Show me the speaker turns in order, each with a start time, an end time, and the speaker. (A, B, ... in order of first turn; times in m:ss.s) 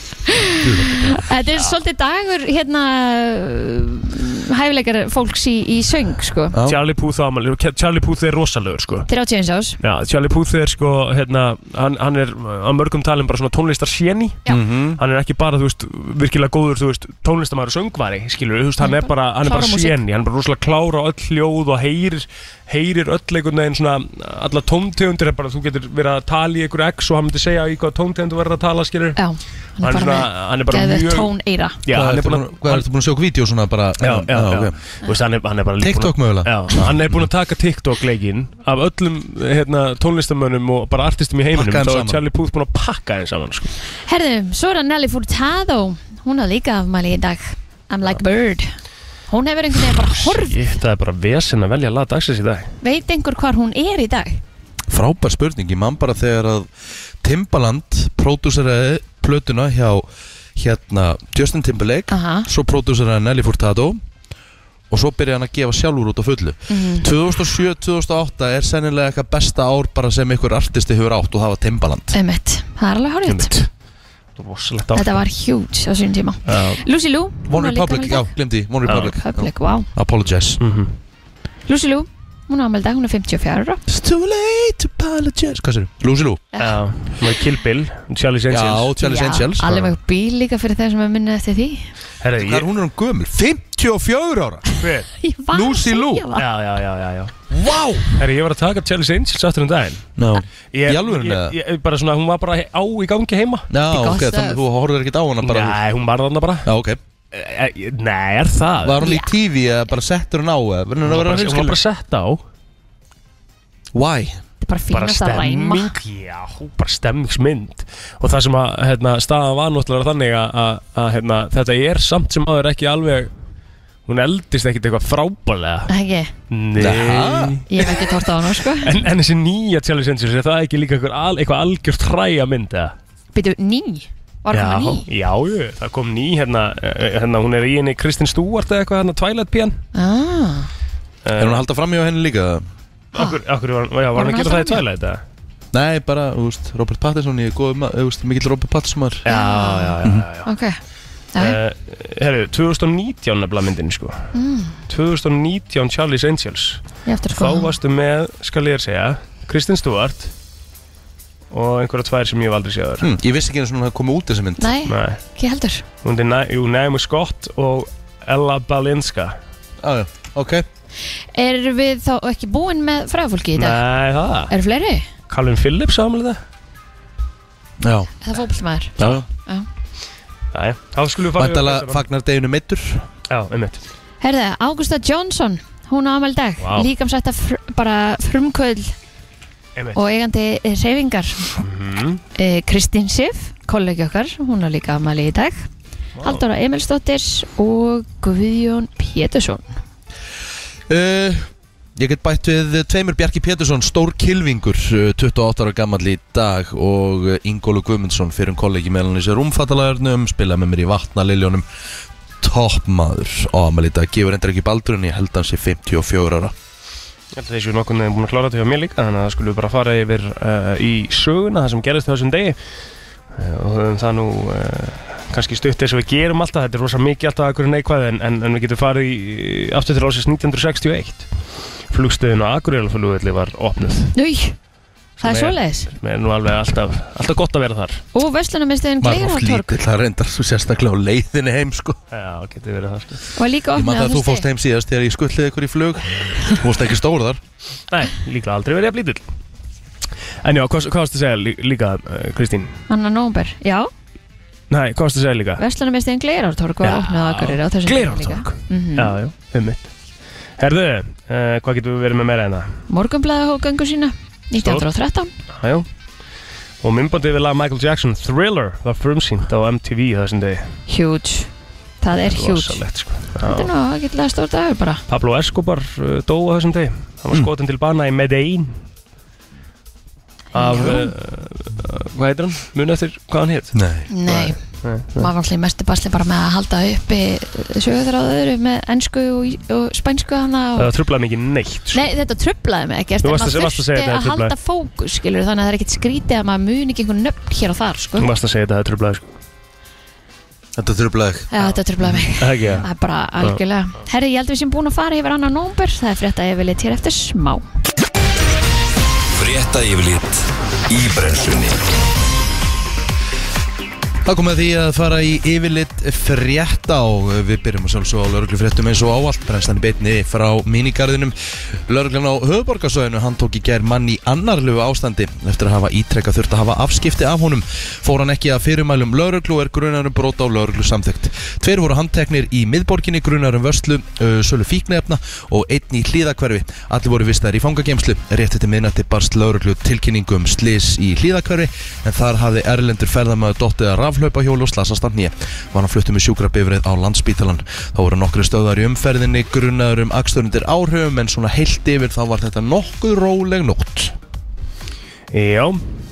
0:00.2-0:06.5 A
0:00.6-0:01.2 B
0:06.6-0:09.1 C
0:09.1-0:09.8 A
0:09.8-0:14.4 C
0:14.5-0:15.0 B
0:15.0-0:29.2 C
0:18.8-0:20.0 A
0:29.2-0:31.8 A
0:29.8-0:31.3 C
0:31.8-0:32.9 C
0:31.9-0:34.8 B
0:34.0-0:43.8 C
0:35.8-0:37.2 B
0:41.5-0:42.2 B
0:44.0-0:48.8 A
0:49.3-0:50.6 A
0:50.2-0:52.7 C
0:52.8-0:54.4 A
0:54.9-0:56.7 B
0:57.2-1:04.0 B
1:02.1-1:02.5 A
1:04.9-1:12.2 B
1:06.7-1:07.1 A
1:12.1-1:13.5 A
1:13.3-1:13.7 C
1:14.4-1:15.2 C
1:14.9-1:18.3 A
1:16.5-1:16.8 C
1:17.5-1:20.6 B
1:18.9-1:19.9 A
1:20.6-1:21.0 C
1:21.7-1:23.8 A
1:23.9-1:26.4 B
1:26.5-1:26.8 A
1:26.6-1:29.0 C
1:28.5-1:29.8 B
1:29.0-1:31.9 A
1:32.2-1:32.7 C
1:32.4-1:34.7 B
1:34.8-1:35.1 C
1:35.2-1:36.5 A
1:35.5-1:36.3 B
1:36.3-1:37.4 C
1:37.5-1:38.1 B
1:38.1-1:40.1 C
1:40.2-1:41.6 B
1:40.7-1:43.7 C
1:43.7-1:45.8 B
1:43.9-1:44.6 A
1:45.4-1:46.7 C
1:46.6-1:47.0 B
1:47.3-1:49.1 C
1:48.8-1:51.8 B
1:49.0-1:49.3 A
1:51.0-1:52.4 C
1:53.9-1:54.4 B
1:54.6-1:55.9 A
1:54.9-2:03.3 C
2:04.1-2:05.9 C
2:05.9-2:06.3 A
2:06.5-2:08.1 C
2:06.8-2:07.6 B
2:07.7-2:09.0 A
2:08.7-2:12.9 C
2:13.3-2:15.1 A
2:14.5-2:19.8 C
2:19.9-2:20.7 A
2:21.2-2:21.6 C
2:21.4-2:22.6 B
2:23.1-2:25.2 C
2:24.1-2:24.8 A
2:25.7-2:29.2 B
2:29.2-2:30.5 C
2:29.2-2:30.8 A
2:31.4-2:34.3 C
2:34.3-2:34.8 A
2:34.9-2:40.3 C
2:37.0-2:37.7 A
2:41.5-2:43.1 C
2:43.0-2:44.7 B
2:44.6-2:45.8 A
2:44.9-2:45.2 C
2:46.0-2:49.4 C
2:49.8-2:50.6 B
2:51.3-2:53.8 A
2:53.6-2:54.5 C
2:54.5-2:55.1 A
2:55.3-2:56.4 C
2:57.8-2:58.1 B
2:58.2-2:59.7 A
2:59.0-2:59.2 B
3:00.5-3:02.0 C
3:01.4-3:03.1 B
3:03.3-3:03.8 C
3:04.2-3:08.9 A
3:06.6-3:06.9 C
3:09.9-3:11.6 A
3:11.6-3:12.2 C
3:12.3-3:15.7 A
3:16.2-3:16.4 C
3:16.2-3:19.8 A
3:20.9-3:31.6 B
3:32.4-3:36.5 B
3:37.3-3:42.6 C
3:43.3-3:51.3 C
3:51.9-3:54.1 C
3:54.1-3:54.6 A
3:55.2-3:55.9 A
3:55.2-3:58.0 C
3:58.1-3:59.8 A
3:59.0-4:02.0 B
4:02.1-4:03.2 C
4:03.4-4:04.4 A
4:03.8-4:07.4 B
4:07.9-4:09.2 C
4:10.4-4:12.8 C
4:12.9-4:13.9 A
4:14.7-4:15.6 C
4:15.6-4:19.2 A
4:16.8-4:19.9 C
4:20.6-4:22.7 C
4:22.9-4:25.3 A
4:24.6-4:24.8 C
4:25.5-4:25.8 C
4:26.8-4:30.8 C
4:30.9-4:31.5 A
4:32.0-4:32.8 A
4:32.1-4:33.7 C
4:33.4-4:35.0 A
4:35.1-4:38.8 C
4:40.5-4:41.1 A
4:40.5-4:45.3 C
4:43.7-4:44.1 B
4:44.1-4:44.6 A
4:45.1-4:50.9 A
4:50.8-4:52.1 C
4:51.9-4:58.3 A
4:53.2-4:54.5 C
4:58.2-4:59.2 C
5:00.8-5:01.5 B
5:01.5-5:07.6 A
5:02.3-5:02.9 C
5:09.3-5:11.9 D
5:14.2-5:21.3 B
5:21.9-5:54.1 B
5:55.3-5:55.8 C